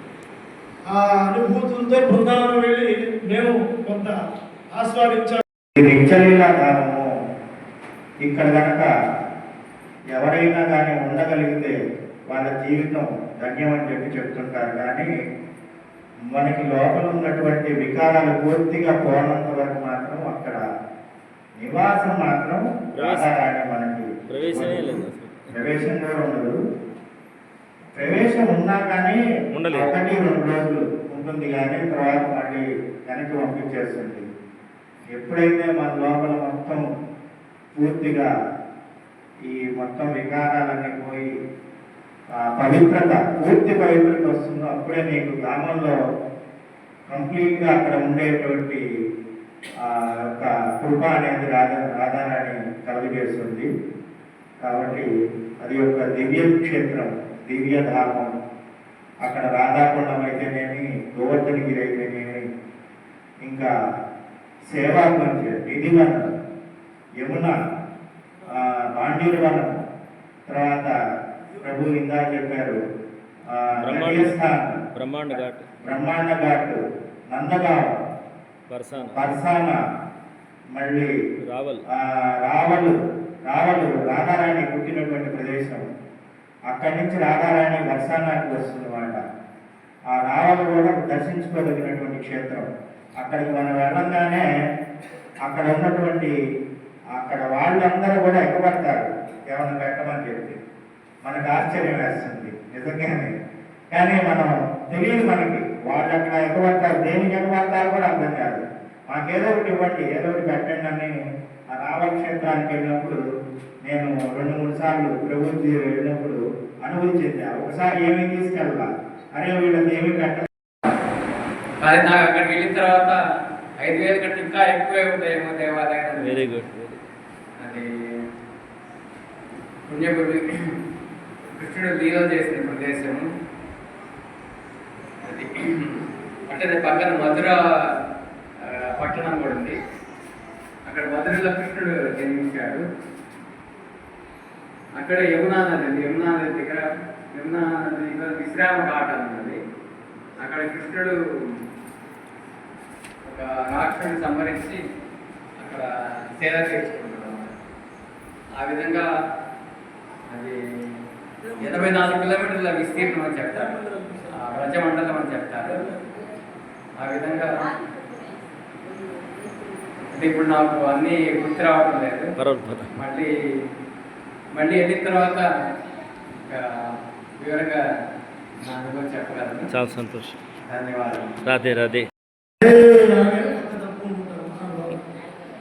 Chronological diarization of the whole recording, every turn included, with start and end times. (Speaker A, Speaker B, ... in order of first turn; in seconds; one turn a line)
Speaker A: 0.9-4.2
Speaker A: 4.8-5.4
Speaker B: 5.8-7.1
Speaker B: 8.2-8.9
Speaker B: 10.1-11.8
Speaker B: 12.3-15.1
Speaker B: 16.3-20.6
Speaker B: 21.6-25.0
Speaker C: 22.9-23.3
Speaker C: 24.3-25.5
Speaker B: 25.5-26.6
Speaker B: 28.0-29.2
Speaker C: 29.5-29.9
Speaker B: 29.7-34.2
Speaker B: 35.1-36.9
Speaker B: 37.8-38.3
Speaker B: 39.5-41.3
Speaker B: 42.4-46.0
Speaker B: 47.1-48.8
Speaker B: 49.8-53.7
Speaker B: 54.7-55.1
Speaker B: 55.6-58.3
Speaker B: 59.2-62.4
Speaker B: 63.4-63.7
Speaker B: 64.7-66.3
Speaker B: 67.2-67.6
Speaker B: 68.6-69.8
Speaker B: 70.5-70.9
Speaker B: 71.6-72.8
Speaker B: 73.5-74.8
Speaker C: 73.8-74.3
Speaker C: 74.9-75.7
Speaker B: 75.8-77.9
Speaker C: 78.7-79.3
Speaker B: 79.2-79.8
Speaker B: 80.8-81.1
Speaker C: 81.4-81.8
Speaker B: 81.9-85.9
Speaker B: 86.7-89.2
Speaker B: 90.1-92.7
Speaker B: 93.2-94.5
Speaker B: 95.4-96.4
Speaker B: 97.2-100.6
Speaker B: 101.2-103.3
Speaker B: 103.9-111.2
Speaker B: 111.7-113.2
Speaker B: 113.8-120.5
Speaker D: 121.8-123.2
Speaker D: 123.8-126.5
Speaker C: 126.2-127.0
Speaker D: 127.6-127.9
Speaker D: 129.9-130.7
Speaker D: 131.6-133.3
Speaker D: 135.2-137.6
Speaker D: 138.7-139.8
Speaker D: 140.9-142.8
Speaker D: 145.0-149.6
Speaker D: 150.4-151.2
Speaker D: 153.3-154.8
Speaker D: 155.6-157.5
Speaker D: 158.6-159.1
Speaker D: 160.3-160.6
Speaker D: 161.6-163.8
Speaker D: 164.3-165.9
Speaker D: 167.0-167.7
Speaker D: 170.1-172.3
Speaker C: 172.4-172.9
Speaker D: 173.0-173.3
Speaker D: 174.6-175.5
Speaker D: 177.4-177.8
Speaker D: 178.7-179.7
Speaker C: 179.7-180.4
Speaker D: 180.7-181.3
Speaker C: 181.4-182.1
Speaker A: 182.6-185.0